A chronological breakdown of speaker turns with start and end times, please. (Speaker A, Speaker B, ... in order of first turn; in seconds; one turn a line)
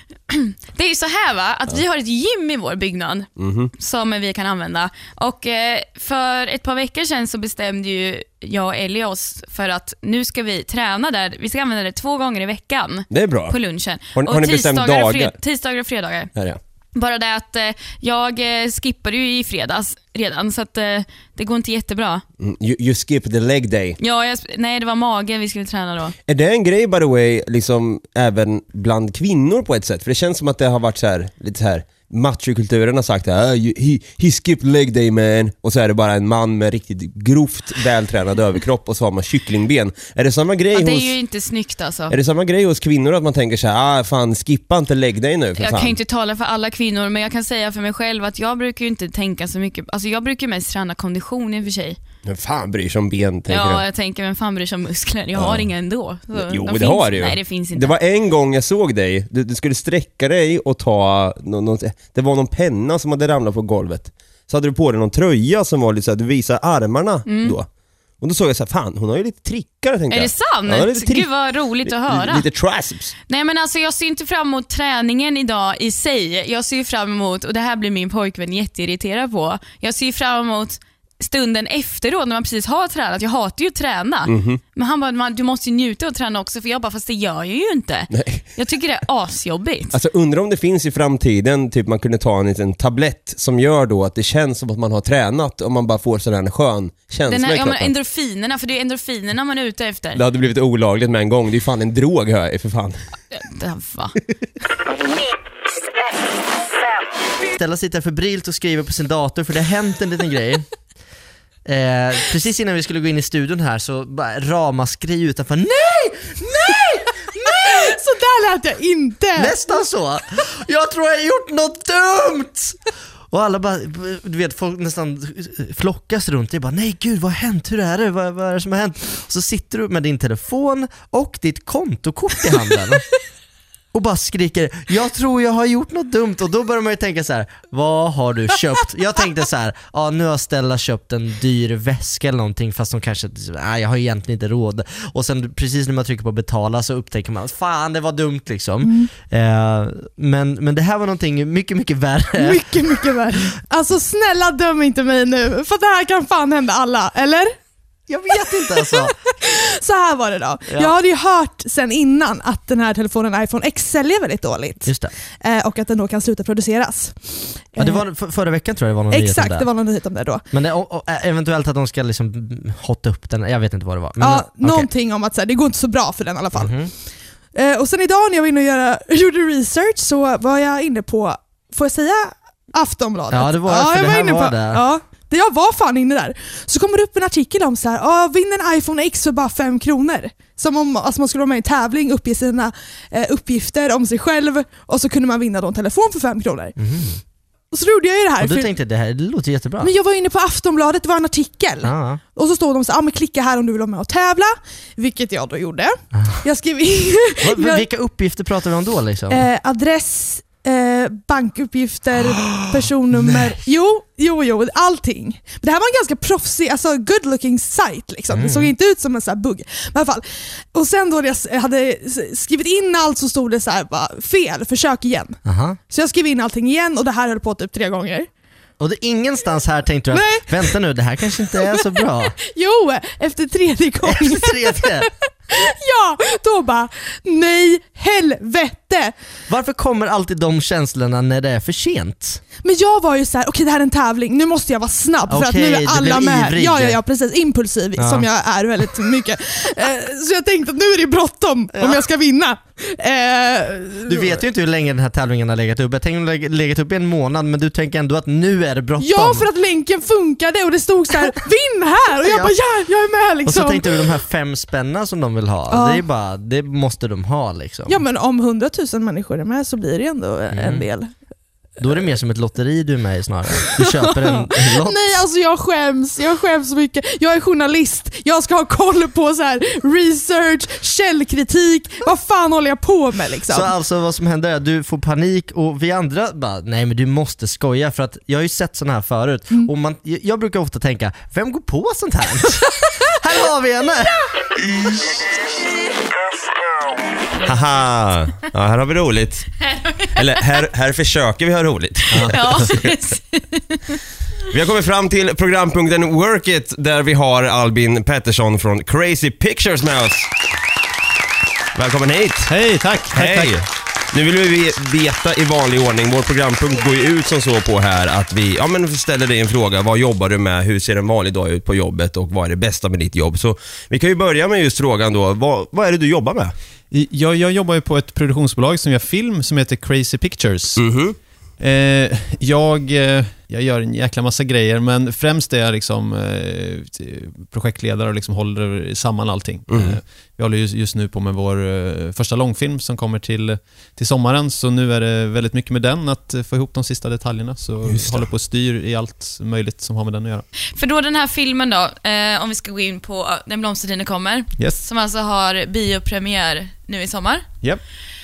Speaker A: 0.3-16.3
Speaker B: 3.4-3.7
Speaker B: 13.1-13.6
Speaker B: 14.1-15.3
Speaker A: 16.9-22.2
Speaker B: 22.4-24.0
Speaker A: 24.0-26.1
Speaker B: 26.2-41.1
Speaker A: 40.7-42.1
Speaker B: 42.1-45.9
Speaker A: 45.6-52.0
Speaker B: 52.2-53.8
Speaker A: 53.5-57.9
Speaker B: 55.3-55.7
Speaker B: 56.3-67.7
Speaker A: 67.2-67.5
Speaker B: 68.2-73.1
Speaker A: 70.1-72.5
Speaker A: 73.3-90.0
Speaker B: 84.3-84.6
Speaker B: 88.1-88.4
Speaker B: 89.9-97.9
Speaker A: 97.3-100.2
Speaker B: 100.1-103.0
Speaker A: 103.3-104.2
Speaker C: 107.5-110.6
Speaker C: 111.6-118.0
Speaker D: 117.6-119.7
Speaker C: 119.3-122.8
Speaker C: 123.3-133.0
Speaker C: 133.9-153.1
Speaker D: 148.8-149.1
Speaker D: 152.4-157.5
Speaker C: 158.1-159.1
Speaker D: 158.5-168.1
Speaker C: 160.7-160.9
Speaker C: 164.8-165.1
Speaker C: 167.8-174.9
Speaker D: 169.1-170.4
Speaker D: 174.2-196.8
Speaker C: 176.5-176.9
Speaker C: 183.3-184.8
Speaker C: 196.8-197.2
Speaker D: 197.7-198.7
Speaker C: 198.4-199.9
Speaker D: 199.8-207.9
Speaker C: 201.8-202.2
Speaker C: 206.1-206.4
Speaker C: 207.4-209.4
Speaker D: 209.3-228.3
Speaker C: 212.3-213.6
Speaker C: 218.3-218.7
Speaker C: 225.4-225.8
Speaker C: 228.8-232.4
Speaker D: 230.1-230.8
Speaker D: 231.4-231.9
Speaker D: 232.4-239.1
Speaker C: 234.0-235.1
Speaker C: 239.5-242.4
Speaker D: 242.6-254.4
Speaker C: 245.3-247.0
Speaker C: 247.9-248.3
Speaker C: 251.7-252.0
Speaker C: 254.1-259.5
Speaker D: 259.0-264.1
Speaker C: 262.2-262.6
Speaker C: 263.4-268.0
Speaker D: 265.7-266.0
Speaker D: 267.9-271.3
Speaker C: 270.5-271.1
Speaker C: 271.8-275.1
Speaker D: 273.8-283.7
Speaker C: 283.5-294.2
Speaker B: 297.4-299.5
Speaker B: 300.1-302.8
Speaker E: 302.1-302.7
Speaker A: 302.3-303.8
Speaker B: 304.5-310.3
Speaker B: 311.7-326.5
Speaker E: 312.5-313.5
Speaker E: 326.9-350.4
Speaker B: 330.8-331.2
Speaker B: 339.7-339.9
Speaker B: 347.9-348.3
Speaker A: 350.7-357.6